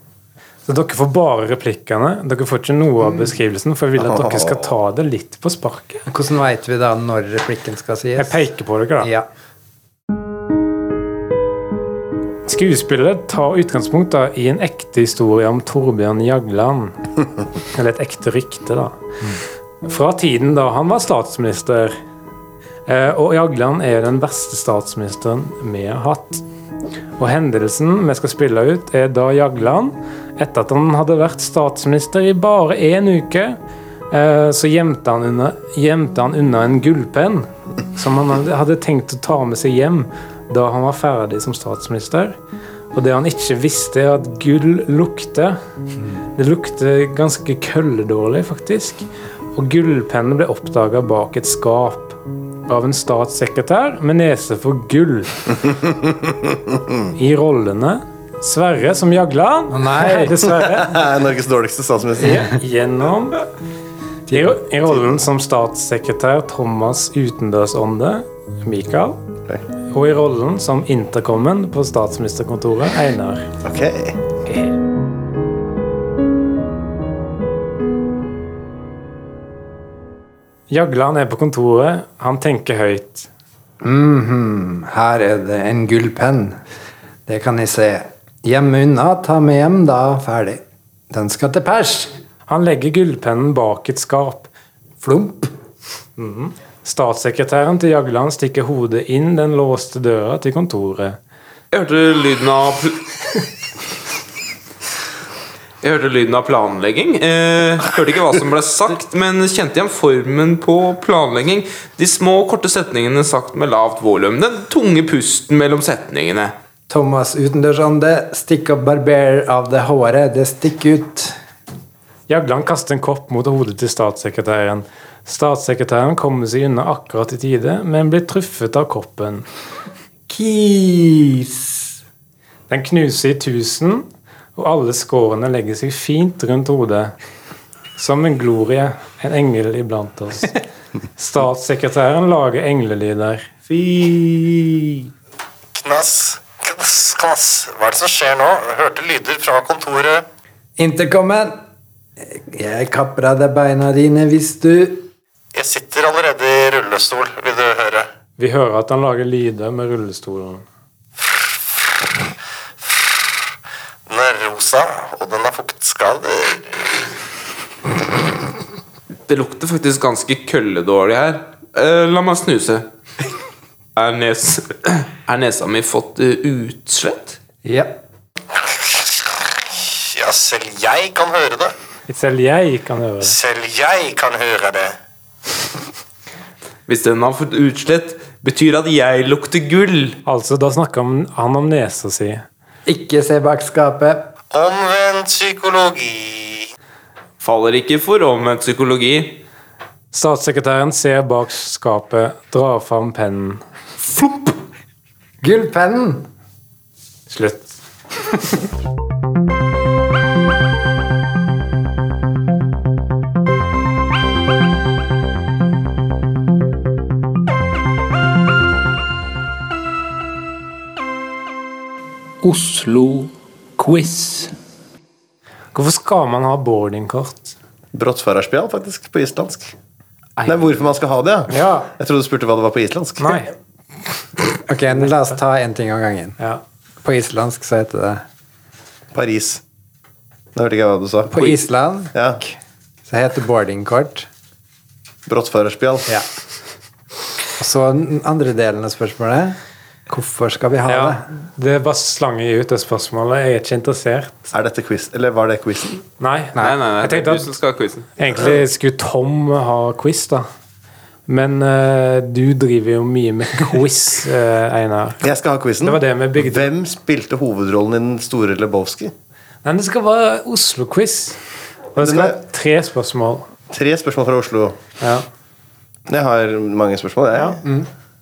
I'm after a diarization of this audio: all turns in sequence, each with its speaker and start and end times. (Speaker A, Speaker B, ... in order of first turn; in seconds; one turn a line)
Speaker A: 0.7-6.0
Speaker B: 4.0-4.6
Speaker C: 6.1-8.5
Speaker A: 8.2-9.1
Speaker C: 9.0-9.2
Speaker A: 12.4-17.0
Speaker A: 17.7-19.0
Speaker A: 19.8-21.9
Speaker A: 22.9-26.4
Speaker A: 27.2-33.6
Speaker A: 34.1-42.4
Speaker A: 42.9-45.6
Speaker A: 46.4-55.5
Speaker A: 57.1-60.9
Speaker C: 59.7-60.5
Speaker B: 60.5-62.5
Speaker A: 62.2-63.4
Speaker C: 64.3-64.5
Speaker A: 64.3-69.2
Speaker A: 69.9-73.5
Speaker B: 73.6-74.2
Speaker A: 74.5-74.7
Speaker A: 80.7-83.3
Speaker C: 83.8-86.6
Speaker C: 87.3-92.1
Speaker A: 92.5-94.5
Speaker C: 95.0-95.5
Speaker A: 96.2-101.2
Speaker D: 101.7-103.1
Speaker D: 105.8-116.5
Speaker C: 116.9-121.4
Speaker A: 122.3-129.4
Speaker C: 130.3-131.9
Speaker A: 132.7-137.1
Speaker A: 137.9-140.6
Speaker A: 141.2-143.5
Speaker B: 143.7-144.9
Speaker E: 145.7-150.2
Speaker C: 150.8-151.6
Speaker C: 152.2-155.1
Speaker E: 155.5-158.1
Speaker A: 158.4-160.6
Speaker E: 164.1-167.1
Speaker D: 169.3-172.9
Speaker D: 173.9-177.4
Speaker C: 177.6-178.0
Speaker E: 178.6-181.7
Speaker A: 182.1-183.4
Speaker E: 183.2-184.9
Speaker D: 186.9-190.2
Speaker A: 190.2-192.4
Speaker C: 192.8-194.3
Speaker E: 194.5-196.7
Speaker D: 197.4-199.4
Speaker A: 200.1-203.6
Speaker C: 205.4-206.3
Speaker A: 207.3-207.7
Speaker F: 222.4-224.5
Speaker A: 225.7-227.6
Speaker B: 227.9-229.7
Speaker B: 230.4-233.4
Speaker A: 231.5-231.9
Speaker A: 233.2-233.5
Speaker C: 234.6-236.4
Speaker C: 237.0-238.2
Speaker B: 239.1-239.6
Speaker B: 240.5-241.5
Speaker C: 241.3-244.3
Speaker B: 242.1-242.4
Speaker B: 245.3-246.1
Speaker C: 247.6-249.6
Speaker C: 250.1-251.2
Speaker A: 250.8-254.4
Speaker B: 254.5-256.0
Speaker A: 256.2-257.5
Speaker D: 256.6-258.1
Speaker A: 258.2-260.4
Speaker A: 261.3-265.2
Speaker B: 265.2-269.1
Speaker A: 265.8-266.7
Speaker A: 269.6-271.4
Speaker A: 271.9-273.5
Speaker B: 272.0-272.4
Speaker B: 273.7-274.8
Speaker A: 275.0-275.2
Speaker B: 276.1-277.6
Speaker C: 277.6-277.9